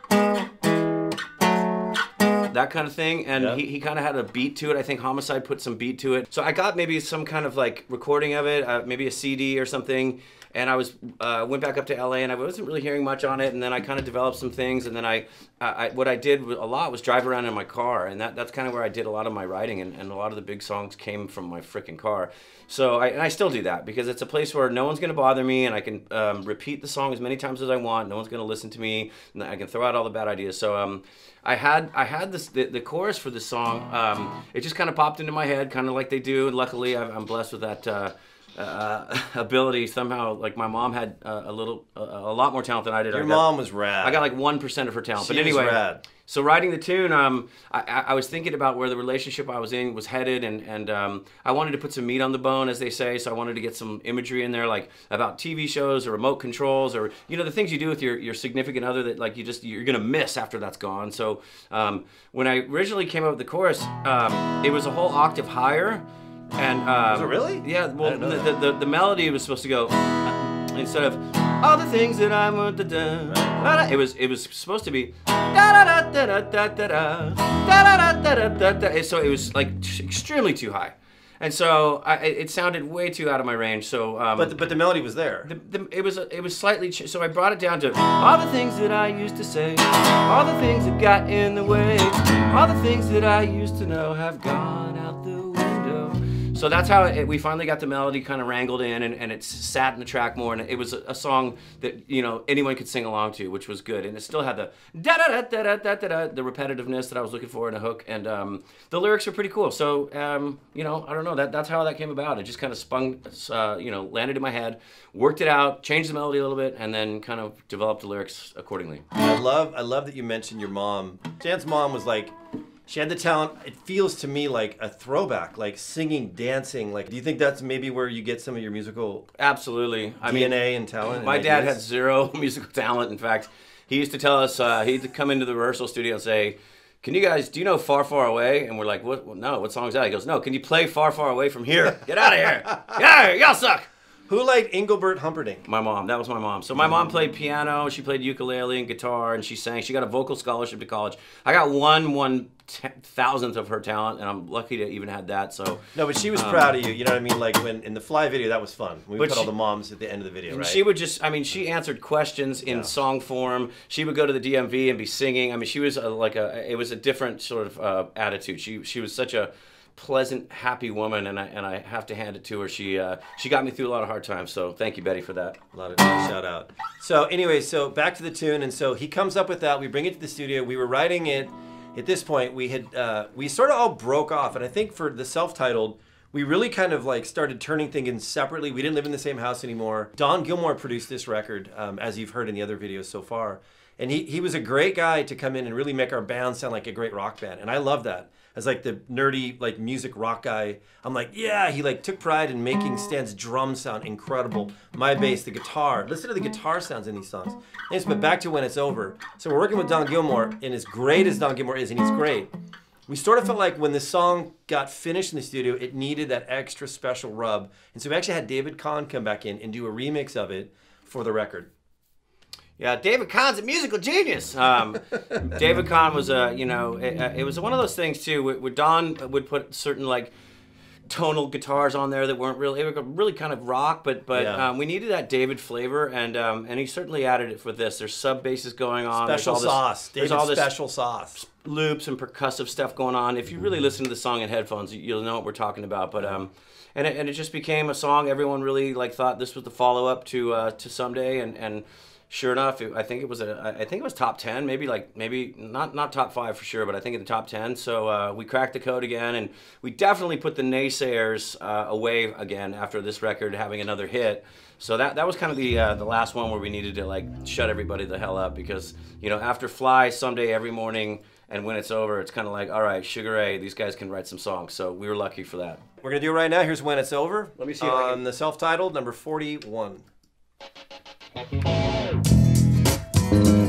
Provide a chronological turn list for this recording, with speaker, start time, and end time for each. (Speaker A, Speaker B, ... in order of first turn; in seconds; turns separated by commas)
Speaker A: 2.5-43.5, Speaker B: 43.1-44.2, Speaker A: 44.0-66.0, Speaker B: 45.1-46.0, Speaker A: 66.5-84.6, Speaker B: 67.1-68.6, Speaker B: 73.3-73.6, Speaker B: 84.3-85.5, Speaker A: 85.4-119.0, Speaker B: 119.2-122.3, Speaker B: 122.9-129.3, Speaker A: 129.4-143.9, Speaker B: 130.2-131.8, Speaker B: 144.3-145.6, Speaker A: 145.6-156.7, Speaker B: 155.9-160.8, Speaker A: 159.2-159.5, Speaker A: 160.5-175.6, Speaker B: 162.7-162.9, Speaker B: 175.7-212.5, Speaker B: 213.1-221.7, Speaker A: 222.8-230.3, Speaker A: 231.1-240.7, Speaker B: 234.3-234.7, Speaker B: 239.1-241.4, Speaker A: 241.4-275.8, Speaker B: 276.0-280.1, Speaker A: 277.6-278.2